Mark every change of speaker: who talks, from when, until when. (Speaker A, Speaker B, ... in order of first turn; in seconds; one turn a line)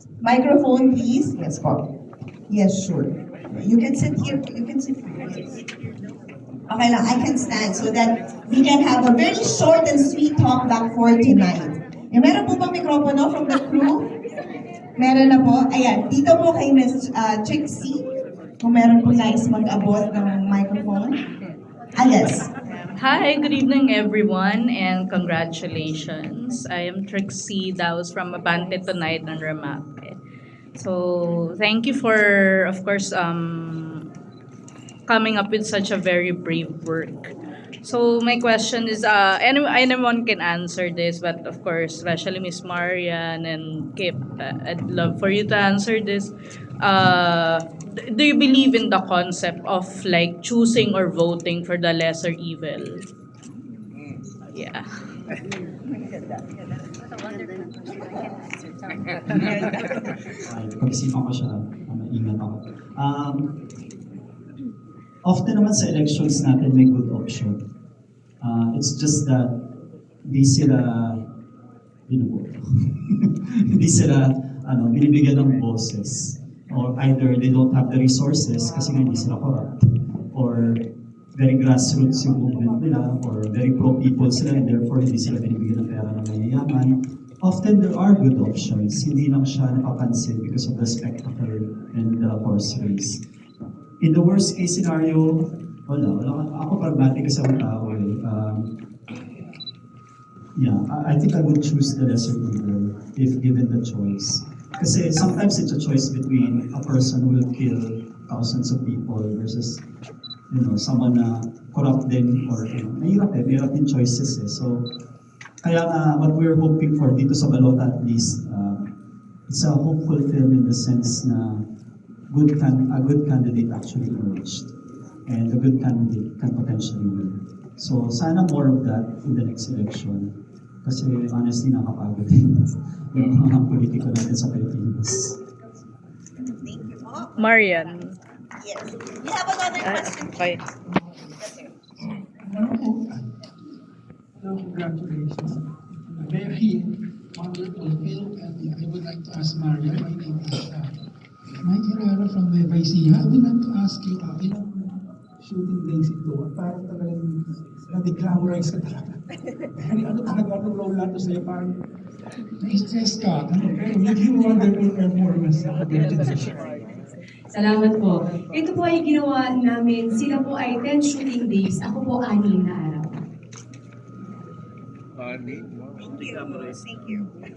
Speaker A: 0.2-1.8
Speaker A: 2.5-5.5
Speaker A: 6.7-14.1
Speaker A: 15.0-18.0
Speaker A: 18.6-21.2
Speaker A: 21.9-22.5
Speaker B: 22.9-30.2
Speaker B: 30.8-34.0
Speaker B: 35.1-37.3
Speaker B: 37.8-53.0
Speaker B: 54.5-54.9
Speaker C: 60.4-63.5
Speaker C: 65.2-67.6
Speaker C: 68.4-69.5
Speaker C: 70.3-71.2
Speaker C: 72.1-79.8
Speaker C: 80.3-80.8
Speaker C: 81.3-93.2
Speaker C: 94.0-98.7
Speaker C: 100.5-109.8
Speaker C: 110.5-114.9
Speaker C: 115.6-118.9
Speaker C: 119.5-121.6
Speaker C: 122.3-124.7
Speaker C: 125.3-135.4
Speaker A: 136.4-138.0
Speaker B: 137.4-138.2
Speaker A: 138.6-140.5
Speaker B: 139.8-140.6
Speaker A: 141.3-141.7
Speaker D: 142.4-143.3
Speaker D: 144.4-145.6
Speaker D: 146.1-150.9
Speaker D: 151.6-157.2
Speaker D: 157.9-159.0
Speaker D: 159.8-161.7
Speaker D: 162.6-166.6
Speaker E: 167.5-173.2
Speaker A: 176.0-177.3